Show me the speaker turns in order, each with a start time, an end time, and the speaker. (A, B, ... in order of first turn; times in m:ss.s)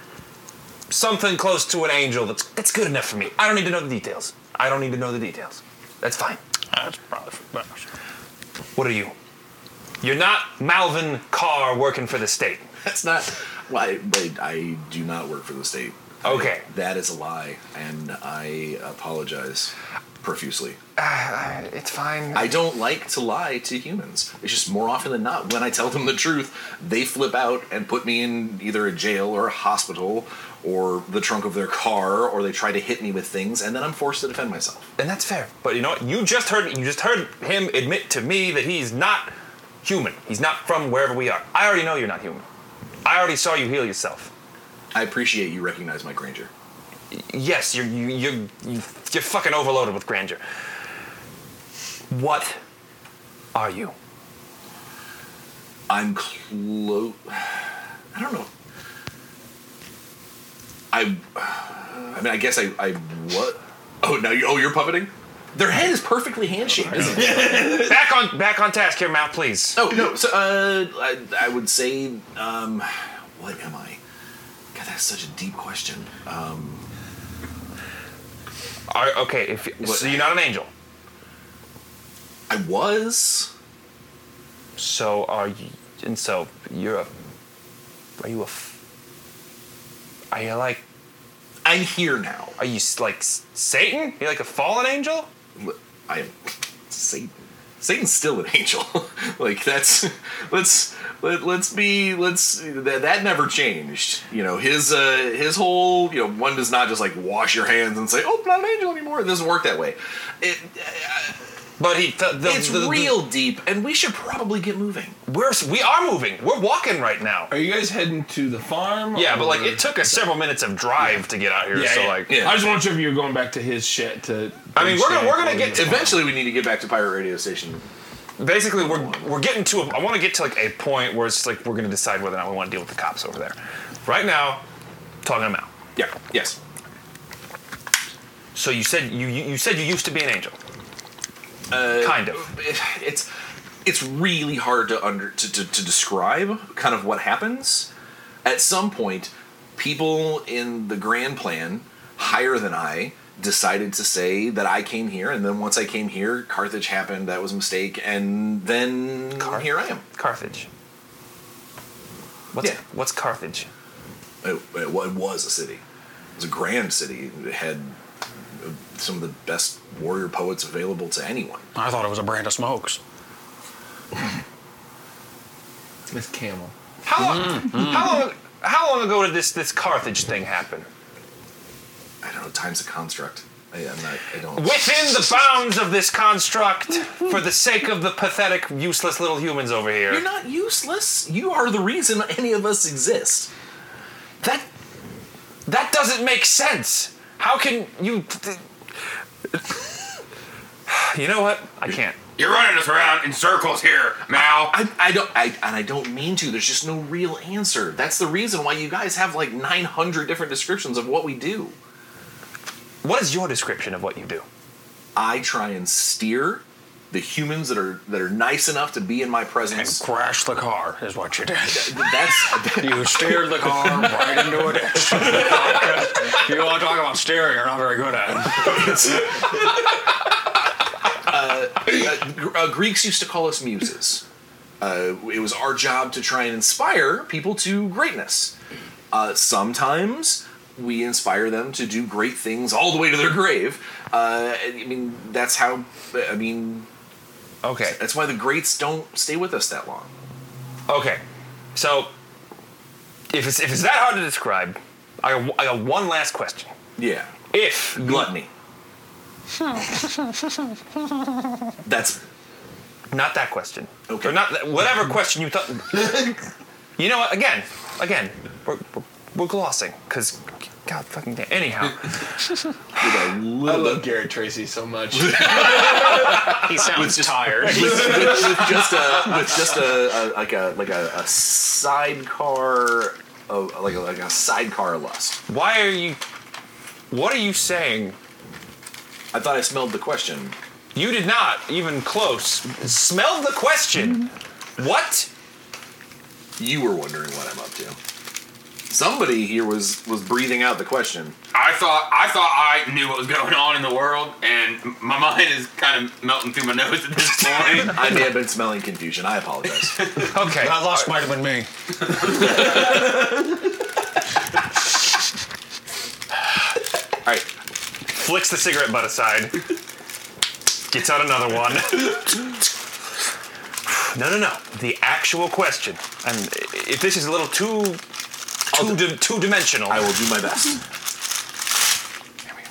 0:00.9-0:06.4 A
0:06.7-0:07.8 B
0:08.8-0:09.1 A
0:10.0-0:12.6 A
0:12.8-0:20.8 C
0:16.2-0:16.6 A
0:21.0-0:22.6 A
0:22.3-0:34.9 C
0:35.0-0:42.4 A
0:43.0-0:44.3 A
0:44.9-0:46.5 C
0:47.1-0:50.4 A
0:52.1-0:52.6 A
0:53.5-0:53.9 A
0:55.9-0:58.5 C
1:00.9-1:07.8 C
1:07.2-1:07.9 D
1:07.2-1:10.0 A
1:09.7-1:14.0 C
1:14.7-1:16.8 C
1:18.9-1:20.7 A
1:19.8-1:20.2 C
1:22.5-1:23.5 C
1:24.8-1:27.1 A
1:28.2-1:28.7 A
1:30.3-1:30.8 A
1:31.6-1:32.6 C
1:32.6-1:35.3 A
1:35.6-1:51.4 C
1:51.8-1:53.3 A
1:52.4-1:55.2 C
1:55.3-1:57.5 A
1:57.5-2:00.0 D
1:59.1-2:02.5 A
2:01.7-2:06.2 D
2:02.3-2:02.8 C
2:04.7-2:06.3 A
2:05.7-2:07.8 C
2:08.4-2:14.6 A
2:08.8-2:09.2 C
2:15.2-2:15.7 A
2:16.0-2:16.6 C
2:18.5-2:20.6 A
2:21.7-2:23.3 C
2:21.9-2:22.5 A
2:23.8-2:27.9 C
2:28.4-2:40.0 C
2:39.4-2:40.7 A
2:42.5-2:43.7 A
2:44.4-2:45.8 C
2:46.4-2:48.0 C
2:48.6-2:51.7 C
2:51.7-2:53.0 B
2:56.1-2:56.7 D
2:57.0-3:00.9 A
2:57.4-2:58.0 B
3:02.2-3:05.0 C
3:04.5-3:10.2 A
3:10.1-3:13.5 C
3:14.4-3:14.7 A
3:15.6-3:18.6 A
3:20.9-3:22.2 A
3:22.4-3:24.8 E
3:24.3-3:31.8 C
3:33.0-3:34.4 A
3:35.2-3:40.0 C
3:39.7-3:48.9 B
3:41.7-3:44.3 C
3:48.6-3:49.8 C
3:51.2-3:54.2 C
3:54.8-3:58.5 C
3:59.1-4:06.9 C
4:07.6-4:08.0 A
4:07.8-4:10.1 C
4:10.9-4:11.2 A
4:11.7-4:12.1 A
4:13.3-4:16.7 A
4:17.0-4:17.3 C
4:17.5-4:18.3 A
4:18.0-4:18.5 C
4:21.8-4:22.2 C
4:23.1-4:26.4 A
4:24.1-4:24.4 C
4:27.0-4:32.2 A
4:33.0-4:34.1 C
4:33.6-4:36.3 D
4:35.1-4:45.4 C
4:36.3-4:38.4 B
4:45.5-4:46.2 A
4:47.1-4:48.2 A
4:49.3-4:50.6 C
4:50.9-4:55.3 A
4:56.6-4:58.0 C
4:58.9-5:01.4 C
5:01.5-5:08.2 E
5:07.4-5:10.1 C
5:10.2-5:11.1 A
5:10.4-5:11.7 B
5:12.3-5:12.9 C
5:18.1-5:19.6 A
5:20.9-5:22.6 A
5:23.8-5:28.0 A
5:28.7-5:30.2 A
5:28.7-5:29.2 C
5:29.9-5:30.8 C